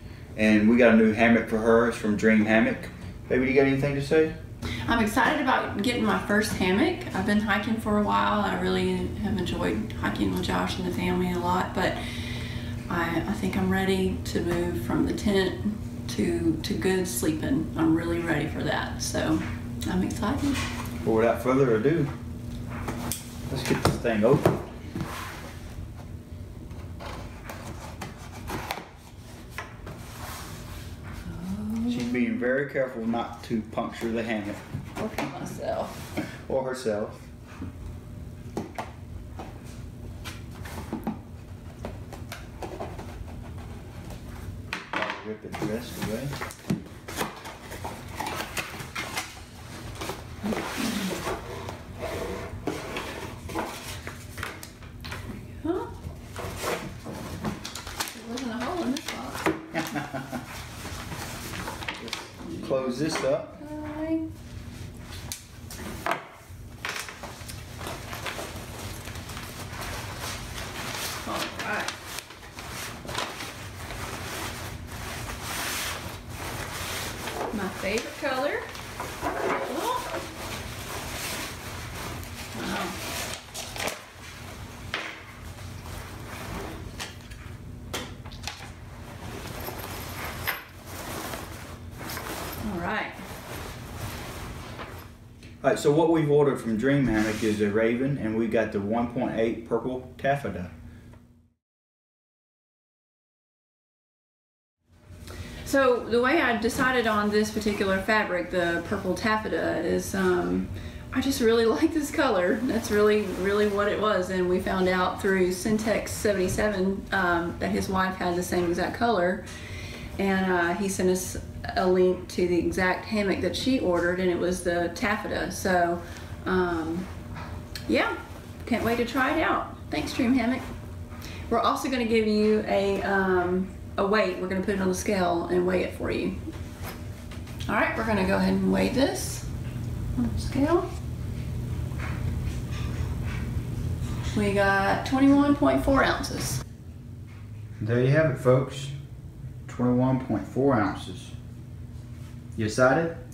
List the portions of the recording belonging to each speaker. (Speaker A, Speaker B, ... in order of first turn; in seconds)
Speaker A: 0.4-4.3, 21.0-22.1, 23.5-24.6, 31.9-34.6, 36.5-37.3, 44.9-46.3, 62.0-63.6, 95.6-100.7, 147.8-148.9, 149.7-151.3, 152.6-153.2
Speaker B: 4.9-12.0, 12.9-20.6, 31.3-32.3, 35.0-36.0, 55.6-55.9, 58.1-59.8, 62.5-64.3, 71.2-71.9, 77.5-78.7, 79.6-80.1, 82.5-83.0, 92.6-93.2, 105.6-119.5, 120.2-127.1, 127.9-130.7, 131.5-136.4, 137.7-139.5, 140.2-140.9, 144.3-146.6